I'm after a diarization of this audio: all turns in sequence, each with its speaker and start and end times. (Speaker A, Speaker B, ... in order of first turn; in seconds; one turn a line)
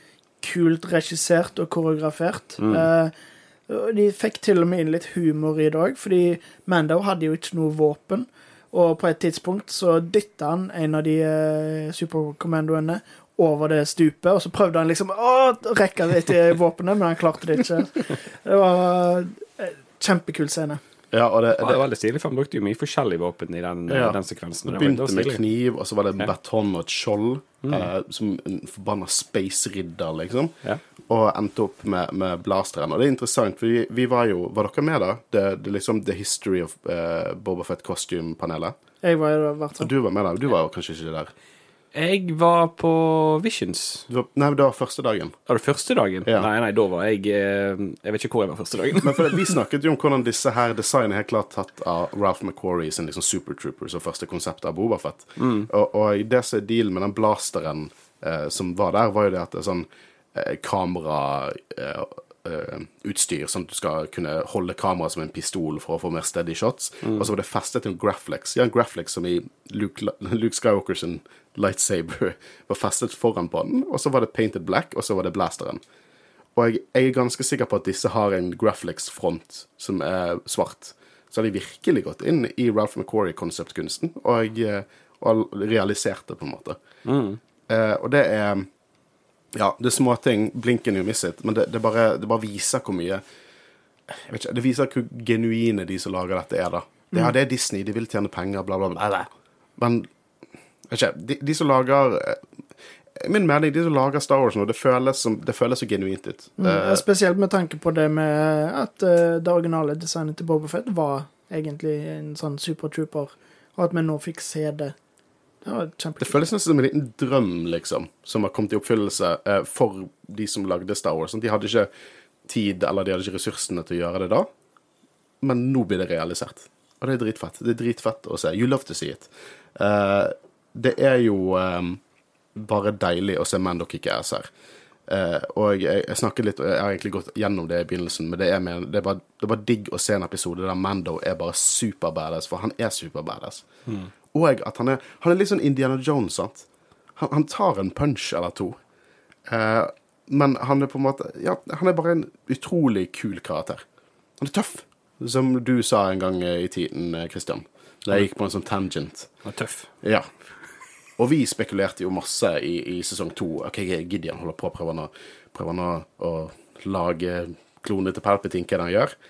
Speaker A: 0.4-3.1
Speaker B: 2.6-2.9
Speaker A: 3.7-20.8
Speaker C: 21.1-21.8
Speaker B: 21.6-25.4
Speaker C: 23.9-30.5
Speaker B: 27.6-27.9
Speaker C: 31.1-38.7
Speaker A: 39.0-39.9
Speaker C: 39.8-41.3
Speaker B: 41.9-44.1
Speaker C: 44.1-45.3
Speaker B: 45.5-49.5
Speaker C: 49.0-75.8
Speaker B: 55.4-55.7
Speaker C: 76.5-86.8
Speaker B: 87.0-87.4
Speaker C: 87.7-88.7
Speaker C: 89.5-93.2
Speaker C: 94.1-100.1
Speaker C: 100.9-102.4
Speaker C: 103.2-107.0
Speaker A: 106.6-114.9
Speaker A: 115.6-116.4
Speaker C: 116.2-121.9
Speaker C: 122.4-124.5
Speaker C: 125.4-132.0
Speaker C: 132.5-134.5
Speaker C: 135.1-143.6
Speaker C: 144.3-146.6
Speaker C: 147.2-148.8
Speaker C: 149.5-153.8
Speaker C: 154.4-159.3
Speaker B: 159.4-159.9
Speaker C: 160.0-160.3
Speaker C: 161.2-169.1